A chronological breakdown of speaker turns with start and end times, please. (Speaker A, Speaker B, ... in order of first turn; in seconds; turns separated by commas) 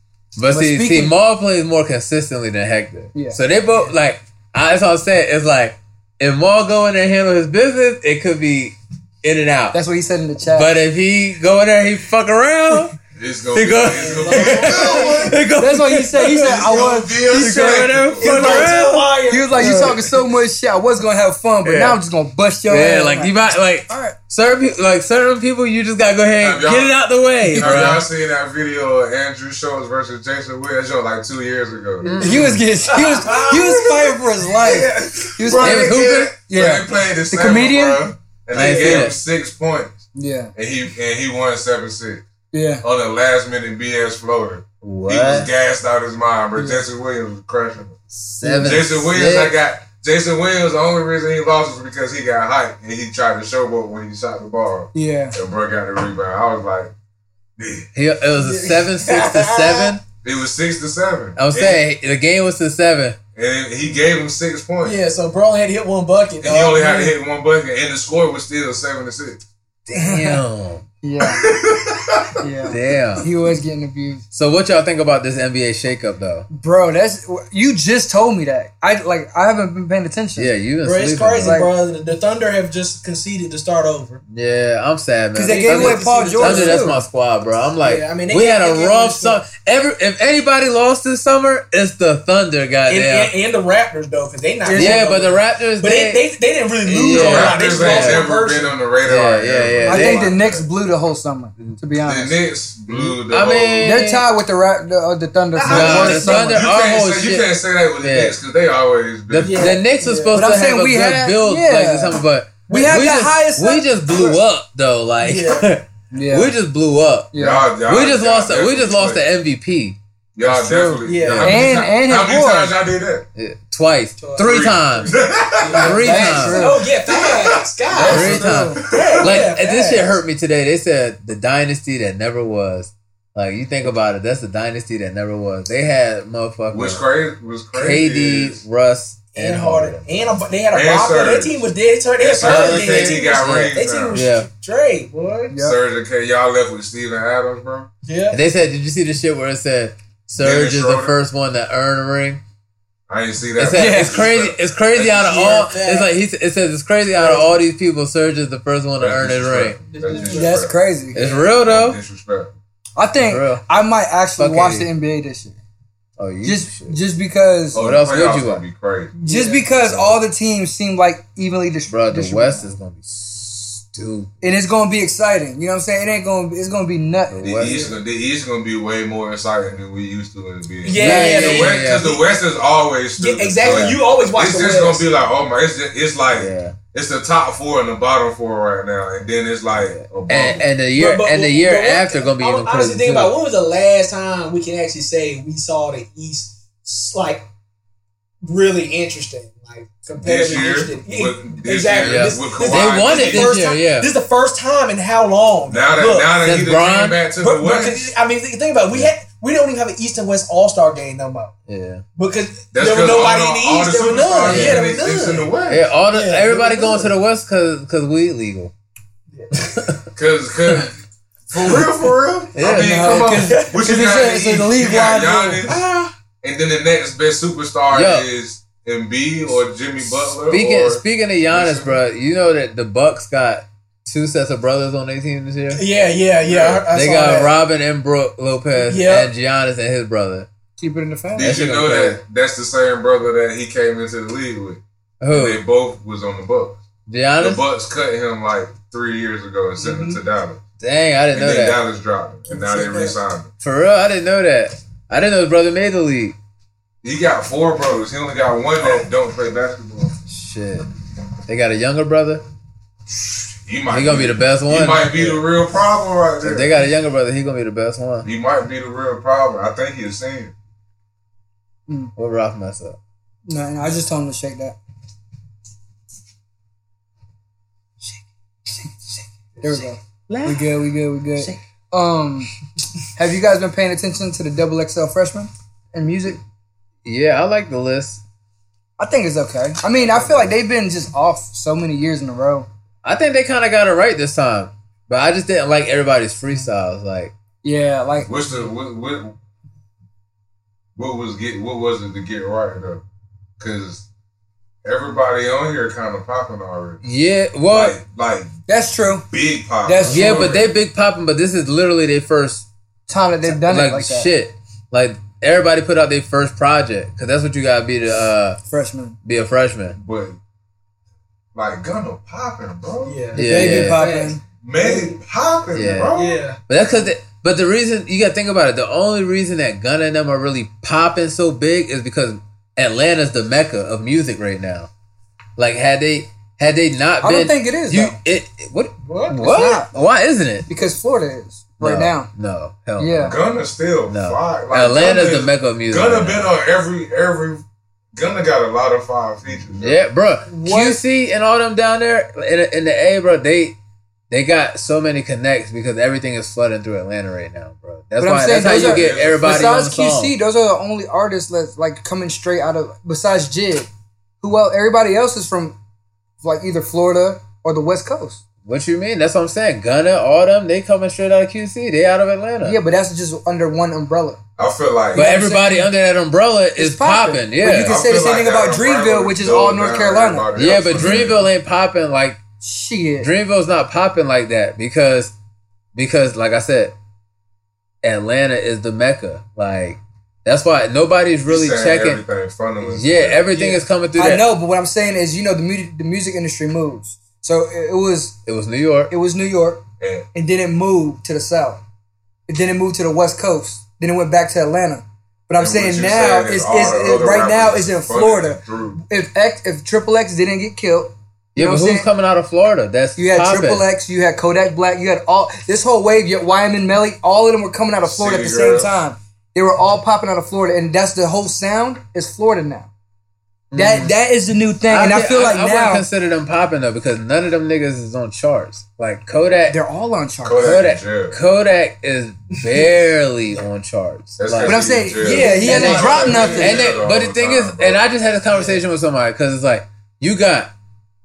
Speaker A: 0.3-9.8, Speaker B: 0.5-1.1, Speaker B: 9.7-10.7, Speaker A: 10.4-12.9, Speaker C: 13.2-15.4, Speaker A: 13.5-20.0, Speaker B: 14.1-17.9, Speaker C: 16.2-18.8, Speaker D: 18.2-20.0, Speaker B: 19.3-23.4, Speaker A: 21.6-22.0, Speaker A: 22.7-28.0, Speaker B: 23.9-24.1, Speaker C: 26.4-26.9, Speaker C: 27.5-32.1, Speaker A: 32.0-32.6, Speaker B: 32.2-38.0, Speaker D: 32.9-33.8, Speaker C: 33.2-40.0, Speaker A: 35.6-36.3, Speaker A: 38.5-39.2, Speaker B: 40.1-40.5, Speaker C: 40.5-42.2, Speaker B: 42.5-42.8, Speaker C: 42.8-48.0, Speaker A: 44.8-45.5, Speaker B: 46.5-46.8, Speaker A: 48.2-49.5, Speaker B: 48.4-49.0, Speaker C: 48.6-56.9, Speaker B: 54.9-55.4, Speaker C: 57.6-57.9, Speaker A: 57.9-60.0, Speaker D: 58.4-60.0, Speaker C: 60.2-61.8, Speaker A: 61.4-63.2, Speaker C: 63.3-65.0, Speaker D: 64.8-67.1, Speaker C: 66.4-69.4, Speaker A: 69.9-70.8, Speaker B: 69.9-70.4, Speaker B: 71.0-71.5, Speaker C: 71.2-72.3, Speaker B: 72.4-74.2, Speaker A: 72.7-73.3, Speaker A: 74.3-76.5, Speaker B: 76.5-80.5, Speaker A: 80.3-81.7, Speaker D: 80.8-84.2, Speaker B: 81.4-81.7, Speaker A: 84.3-93.3, Speaker B: 85.3-87.0, Speaker D: 85.5-87.0, Speaker D: 87.8-89.4, Speaker D: 92.9-98.7, Speaker B: 94.6-95.1, Speaker A: 94.7-96.2, Speaker A: 96.8-98.3, Speaker C: 97.0-100.6, Speaker A: 99.0-100.3, Speaker B: 99.8-102.4, Speaker C: 102.0-103.9, Speaker A: 102.9-104.3, Speaker B: 103.8-106.7, Speaker D: 105.5-106.5, Speaker A: 105.7-108.3, Speaker C: 105.7-109.8, Speaker A: 109.3-120.0, Speaker D: 109.4-110.4, Speaker B: 110.3-114.4, Speaker D: 112.7-113.0, Speaker D: 115.2-115.6, Speaker B: 116.1-116.5, Speaker B: 117.3-117.7, Speaker C: 117.4-119.2, Speaker C: 120.3-123.3, Speaker B: 120.4-122.7, Speaker D: 121.0-121.7, Speaker A: 121.2-121.7, Speaker A: 123.3-125.1, Speaker D: 124.2-124.5, Speaker B: 124.4-124.7, Speaker C: 124.4-129.4, Speaker D: 125.6-130.1, Speaker A: 125.7-126.6, Speaker B: 125.8-126.8, Speaker A: 127.9-137.0, Speaker B: 128.0-128.8, Speaker C: 136.7-138.6, Speaker A: 137.7-140.3, Speaker D: 139.3-145.5, Speaker C: 140.7-141.7, Speaker C: 142.2-144.2, Speaker A: 142.4-144.5, Speaker B: 145.5-145.7, Speaker C: 145.6-147.9, Speaker D: 148.0-148.4, Speaker A: 148.3-152.4, Speaker C: 150.4-151.1, Speaker C: 153.1-155.7, Speaker A: 153.6-159.8, Speaker B: 153.7-154.3, Speaker D: 155.0-156.1, Speaker C: 159.0-162.5, Speaker D: 159.9-160.6, Speaker B: 160.1-161.2, Speaker A: 161.1-162.0, Speaker D: 161.1-161.5, Speaker B: 162.9-165.6, Speaker A: 163.2-163.6, Speaker A: 164.4-164.9, Speaker A: 166.2-167.0, Speaker B: 166.4-167.8, Speaker C: 167.7-169.1, Speaker A: 167.7-168.6, Speaker B: 169.2-172.6, Speaker A: 169.3-170.2, Speaker A: 171.9-174.3, Speaker B: 174.4-177.5, Speaker A: 177.3-177.8, Speaker C: 177.4-190.7, Speaker D: 177.6-178.0, Speaker D: 180.8-182.2, Speaker A: 180.9-182.2, Speaker D: 183.2-185.2, Speaker A: 183.6-184.0, Speaker A: 186.3-186.8, Speaker A: 189.8-193.3, Speaker D: 190.9-197.4, Speaker D: 198.4-206.4, Speaker C: 200.2-203.6, Speaker A: 202.0-204.1, Speaker C: 205.7-208.1, Speaker A: 206.4-207.2, Speaker D: 207.4-211.5, Speaker A: 211.7-212.0, Speaker D: 212.2-215.5, Speaker C: 212.7-215.8, Speaker A: 214.4-214.8, Speaker A: 215.7-218.7, Speaker D: 216.1-217.1, Speaker D: 219.3-219.7, Speaker A: 219.5-220.0, Speaker C: 220.1-225.8, Speaker A: 222.5-223.3, Speaker B: 222.6-225.6, Speaker D: 223.5-223.8, Speaker D: 225.7-226.1, Speaker C: 226.4-232.0, Speaker A: 227.9-228.3, Speaker A: 230.5-235.8, Speaker D: 235.7-237.5, Speaker C: 236.4-236.9, Speaker A: 236.9-240.5, Speaker D: 238.8-239.3, Speaker B: 240.8-241.5, Speaker C: 241.3-246.8, Speaker A: 241.4-242.2, Speaker A: 245.2-245.6, Speaker A: 247.1-247.6, Speaker C: 247.4-250.6, Speaker B: 249.8-250.1, Speaker A: 250.8-251.8, Speaker C: 251.3-253.5, Speaker B: 252.5-253.1, Speaker A: 253.6-256.4, Speaker C: 257.0-260.1, Speaker A: 260.3-260.9, Speaker A: 261.5-262.4, Speaker C: 263.6-266.7, Speaker A: 263.9-265.4, Speaker A: 266.4-268.3, Speaker C: 268.2-270.5, Speaker A: 272.1-273.0, Speaker B: 273.5-274.8, Speaker B: 279.6-282.5, Speaker A: 280.3-280.7, Speaker B: 283.1-286.4, Speaker A: 287.0-288.2, Speaker B: 289.0-292.7, Speaker A: 290.1-290.5, Speaker A: 293.0-297.3, Speaker B: 297.6-298.3, Speaker C: 298.2-299.3, Speaker C: 300.9-303.0, Speaker C: 303.6-304.0, Speaker C: 304.8-307.0, Speaker A: 307.0-308.0, Speaker C: 307.7-308.5, Speaker B: 308.7-309.2, Speaker C: 309.3-310.7, Speaker B: 309.8-310.6, Speaker A: 310.0-312.7, Speaker B: 313.1-314.3, Speaker A: 313.4-318.6, Speaker B: 318.7-319.2, Speaker A: 319.2-319.9, Speaker C: 319.9-320.4, Speaker C: 321.5-323.2, Speaker D: 323.0-325.2, Speaker A: 323.3-324.0, Speaker B: 323.4-324.4, Speaker C: 324.6-326.4, Speaker A: 325.7-326.1, Speaker D: 326.1-326.6, Speaker A: 326.7-334.9, Speaker A: 335.6-340.7, Speaker B: 337.2-338.2, Speaker D: 339.1-339.4, Speaker B: 339.4-339.9, Speaker B: 340.7-342.3, Speaker A: 341.8-343.4, Speaker B: 343.0-343.4, Speaker C: 343.2-347.6, Speaker A: 344.1-346.5, Speaker C: 348.1-350.0, Speaker A: 349.8-353.8, Speaker B: 350.4-351.0, Speaker A: 354.3-360.3, Speaker B: 358.2-363.9, Speaker C: 358.5-359.7, Speaker B: 364.4-365.8, Speaker B: 366.4-368.4, Speaker A: 368.6-372.8, Speaker B: 372.6-374.4, Speaker C: 374.6-375.2, Speaker B: 375.1-375.9, Speaker A: 375.1-378.0, Speaker B: 376.8-380.5, Speaker C: 377.7-381.4, Speaker A: 380.5-382.4, Speaker B: 382.6-383.3, Speaker A: 383.2-385.3, Speaker A: 385.9-386.9, Speaker A: 388.0-392.2, Speaker C: 391.5-393.4, Speaker A: 392.8-394.4, Speaker D: 393.5-393.8, Speaker B: 394.1-398.4, Speaker A: 398.4-399.1, Speaker B: 399.1-401.8, Speaker C: 400.0-400.3, Speaker B: 402.5-412.1, Speaker C: 405.6-409.0, Speaker A: 411.5-413.9, Speaker B: 413.1-422.9, Speaker C: 418.0-418.9, Speaker A: 423.7-424.1, Speaker B: 423.7-426.1, Speaker A: 424.9-429.8, Speaker B: 429.7-430.8, Speaker C: 430.4-431.4, Speaker A: 430.6-435.1, Speaker C: 434.4-438.0, Speaker B: 434.6-437.0, Speaker D: 435.2-436.7, Speaker A: 435.6-440.7, Speaker D: 438.5-438.8